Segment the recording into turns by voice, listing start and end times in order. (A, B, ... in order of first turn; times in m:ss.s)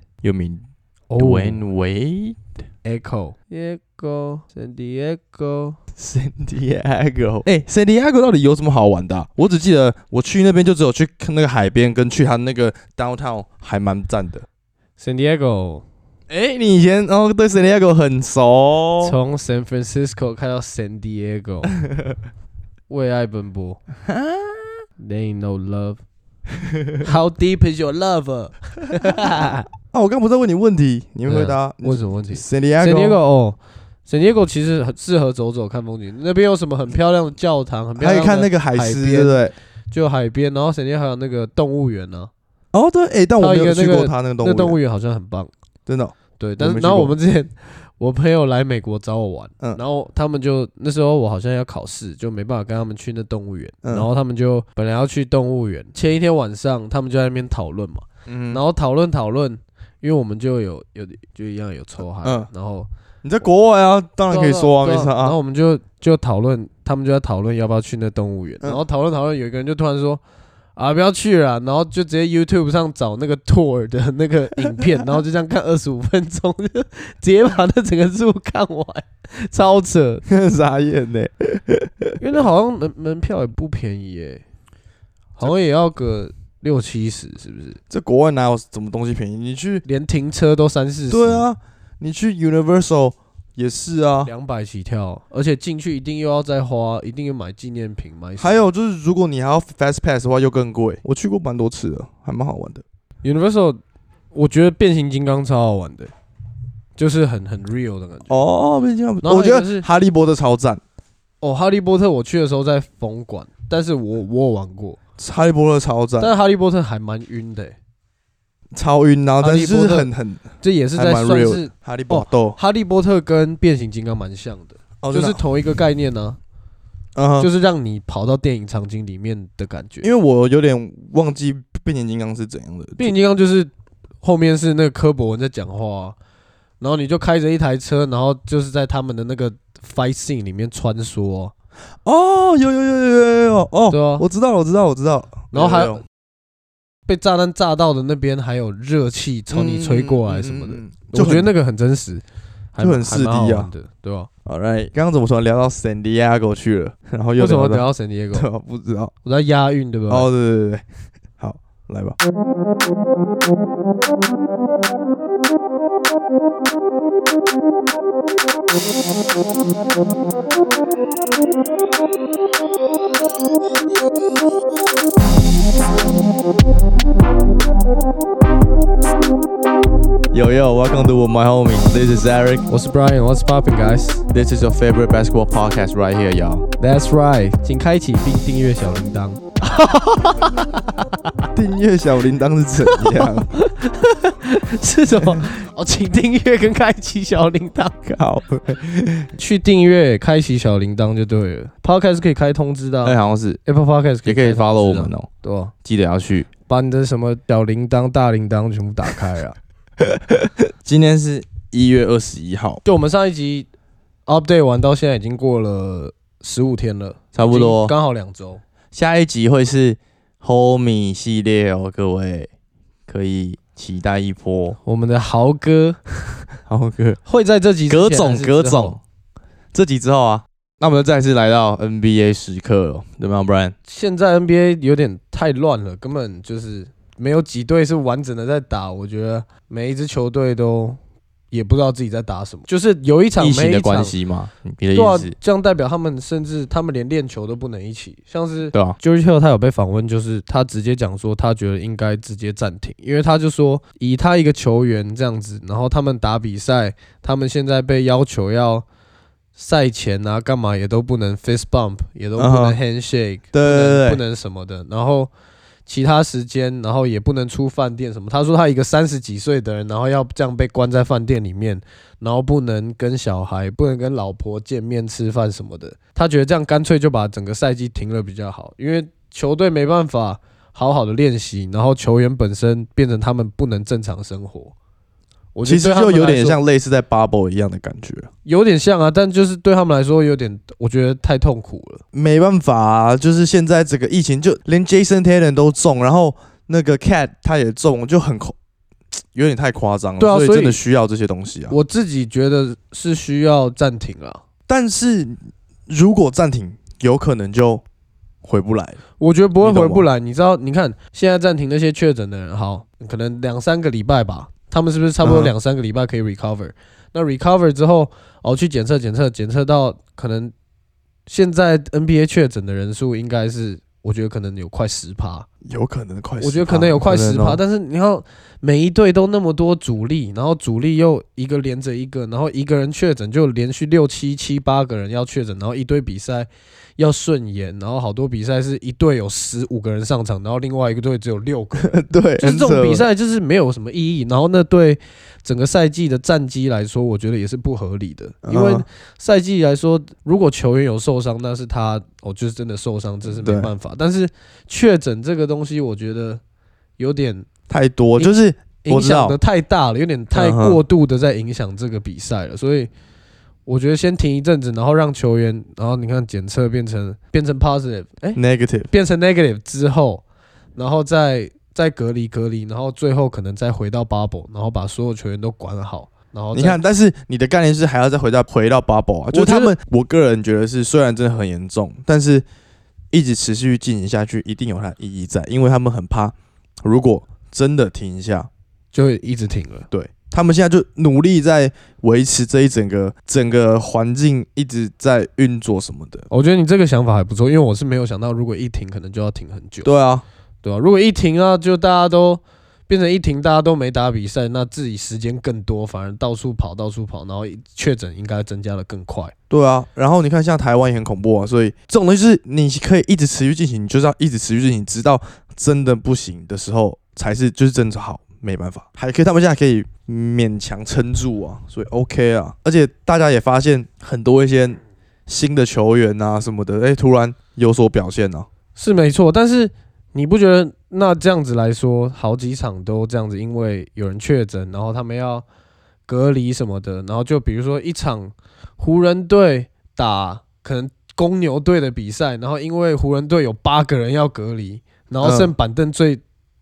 0:00.2-0:00.6 A
0:01.1-0:01.6 B
0:01.2-0:02.4 A
0:02.8-0:05.8 B
0:06.0-0:14.5 A
0:15.0-0:15.8 B
0:16.3-0:19.2 A
0:19.0-0:21.7 B
0:21.7-0:22.2 A
0:22.9-0:23.8 B
0:24.1-0:24.7 A
0:25.0-0:26.0 B
0:26.6-0:27.1 A
0:27.0-0:29.7 B
0:29.9-0:33.2 A
0:31.3-0:39.4 B
0:38.0-0:39.5 A
0:39.9-0:42.3 B
0:42.7-0:44.8 A
0:43.4-0:45.5 B
0:45.9-0:47.1 A
0:46.4-1:02.9 B
0:53.8-0:54.1 A
0:58.3-0:58.6 A
1:02.2-1:02.5 A
1:03.2-1:05.4 A
1:04.3-1:10.2 B
1:10.8-1:20.2 B
1:20.3-1:22.2 A
1:22.2-1:24.4 B
1:25.4-1:27.8 B
1:27.9-1:29.8 A
1:29.8-1:31.4 B
1:31.1-1:34.3 A
1:34.2-1:38.6 B
1:38.4-1:42.8 A
1:43.2-1:43.8 B
1:44.3-1:46.1 B
1:47.0-1:48.3 B
1:48.3-1:50.8 A
1:49.2-1:49.8 B
1:51.4-1:55.0 B
1:55.2-1:56.3 A
1:56.2-1:57.7 B
1:58.7-2:02.6 A
1:59.4-2:06.4 B
2:05.0-2:05.4 A
2:07.2-2:07.5 A
2:07.4-2:10.1 B
2:10.0-2:13.1 A
2:13.0-2:13.7 B
2:14.2-2:16.2 B
2:16.8-2:21.5 B
2:22.0-2:26.0 A
2:23.9-2:24.2 B
2:25.5-2:26.0 B
2:27.1-2:32.2 B
2:29.5-2:31.5 A
2:32.8-2:34.3 B
2:32.8-2:33.7 A
2:34.5-2:39.1 A
2:37.4-2:38.5 B
2:39.2-2:40.3 B
2:40.1-2:40.8 A
2:41.4-2:42.2 A
3:00.3-3:02.7 A
3:02.7-3:04.2 B
3:04.3-3:06.6 A
3:06.8-3:10.9 B
3:11.5-3:13.5 A
3:12.9-3:18.0 B
3:18.0-3:19.3 A
3:19.4-3:25.7 B
3:23.0-3:23.6 A
3:24.2-3:25.3 A
3:25.8-3:26.5 A
3:26.7-3:29.6 B
3:30.0-3:32.8 A
3:32.8-3:33.7 B
3:34.3-3:38.6 B
3:37.3-3:37.9 A
3:38.9-3:42.5 A
3:43.1-3:44.8 A
3:44.8-3:46.4 B
3:46.7-3:47.2 A
3:47.2-3:49.0 B
3:47.9-3:49.0 A
3:49.7-3:53.8 A
3:53.9-4:01.0 B
4:01.5-4:04.2 B
4:03.4-4:05.3 A
4:04.9-4:18.8 B
4:19.6-4:25.3 B
4:22.4-4:22.8 A
4:23.5-4:24.2 A
4:25.9-4:44.7 B
4:45.5-4:46.6 B
4:45.6-4:48.3 A
4:48.4-4:52.0 B
4:52.1-4:58.5 A
4:59.3-5:01.8 A
5:00.2-5:00.8 B
5:01.7-5:04.4 B
5:04.7-5:07.8 A
5:08.4-5:09.0 A
5:09.2-5:20.5 B
5:09.6-5:10.1 A
5:15.2-5:15.5 A
5:21.3-5:25.5 B
5:25.6-5:27.6 A
5:26.4-5:56.4 B
5:41.8-5:43.1 A
5:48.4-5:48.8 A
5:53.3-5:53.7 A
5:57.0-5:57.5 B
5:57.7-5:59.4 A
5:58.2-6:02.9 B
6:00.3-6:00.8 A
6:03.6-6:10.2 B
6:08.4-6:08.9 A
6:10.8-6:16.8 B
6:16.5-6:22.4 A
6:19.3-6:19.8 B
6:23.1-6:28.5 A
6:28.9-6:29.9 B
6:29.9-6:36.2 A
6:36.3-6:39.9 B
6:39.8-6:40.2 A
6:40.6-6:49.3 B
6:49.5-7:08.5 A
7:08.8-7:15.4 B
7:16.1-7:26.2 B
7:25.2-7:25.5 A